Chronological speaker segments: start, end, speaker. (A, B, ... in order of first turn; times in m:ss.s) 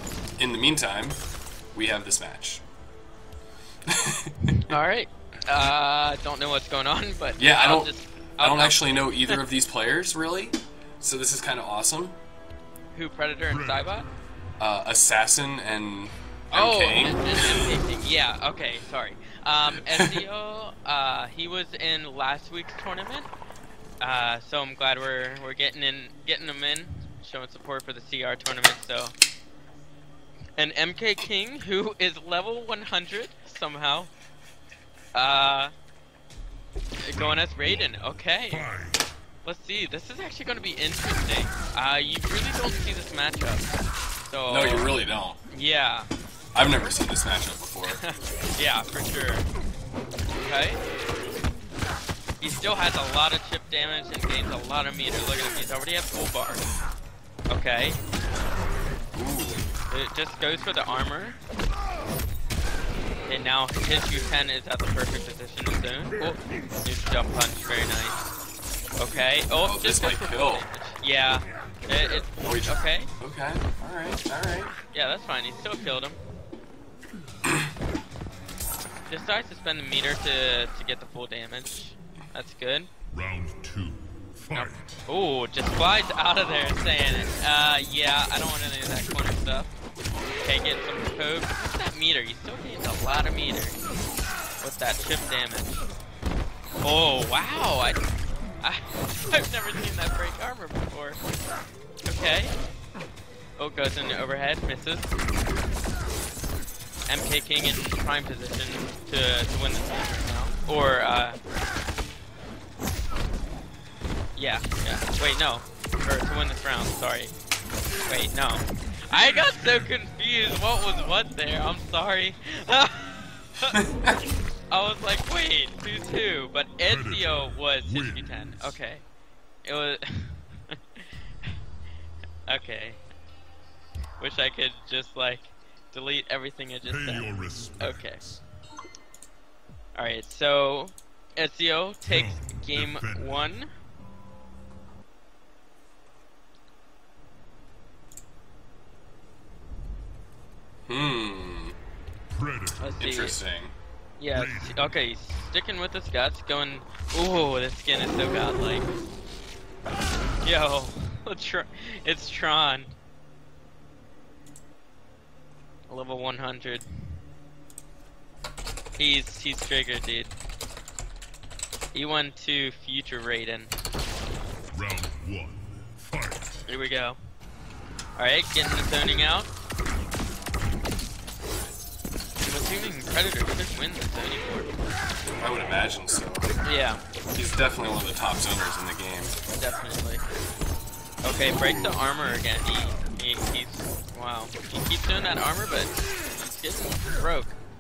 0:00.4-0:01.2 A
0:01.7-0:02.6 A
0:03.9-0:04.3 A
0:04.7-0:09.4 B
0:07.4-0:12.2 A
0:12.9-0:14.1 B
0:13.5-0:14.0 C
0:14.6-0:17.7 A
0:16.5-0:23.3 B
0:19.9-0:20.2 A
0:24.0-0:29.2 B
0:30.6-0:34.1 B
0:35.1-0:35.7 B
0:37.0-0:38.7 B
0:37.1-0:37.9 C
0:38.5-0:39.1 C
0:39.4-0:43.7 B
0:44.2-0:44.9 B
0:44.5-0:45.4 A
0:45.5-0:46.1 B
0:46.5-0:48.0 A
0:47.9-0:49.5 B
0:50.4-0:50.8 B
0:52.4-0:56.7 B
0:57.5-0:58.0 B
0:59.1-0:59.6 A
0:59.9-1:01.4 B
1:03.2-1:08.2 B
1:09.0-1:13.1 B
1:09.6-1:10.7 A
1:12.4-1:14.7 A
1:14.9-1:16.2 B
1:19.1-1:22.9 B
1:23.1-1:24.9 C
1:24.5-1:29.7 B
1:30.4-1:33.8 B
1:34.6-1:35.9 B
1:36.8-1:38.0 B
1:38.6-1:41.2 B
1:42.1-1:42.6 B
1:43.6-1:45.1 B
1:47.1-1:51.4 B
1:54.4-1:57.3 B
1:58.1-2:03.0 B
2:03.6-2:03.8 B
2:04.7-2:09.0 B
2:06.8-2:08.7 C
2:09.6-2:11.5 B
2:12.5-2:13.0 B
2:14.2-2:18.2 B
2:16.9-2:18.4 C
2:19.9-2:23.7 B
2:22.1-2:23.5 C
2:30.9-2:31.8 A
2:32.3-2:32.9 C
2:32.8-2:33.4 B
2:33.0-2:33.7 A
2:34.2-2:38.9 B
2:34.3-2:34.8 C
2:40.4-2:42.9 B
2:45.9-2:46.8 B
2:49.0-2:50.3 B
2:51.9-2:53.7 B
2:54.7-2:56.6 C
2:56.7-2:57.2 B
2:58.2-2:59.5 B
3:02.4-3:04.7 B
3:05.4-3:06.5 A
3:06.6-3:07.0 B
3:07.3-3:09.3 A
3:09.5-3:10.2 B
3:11.2-3:17.6 B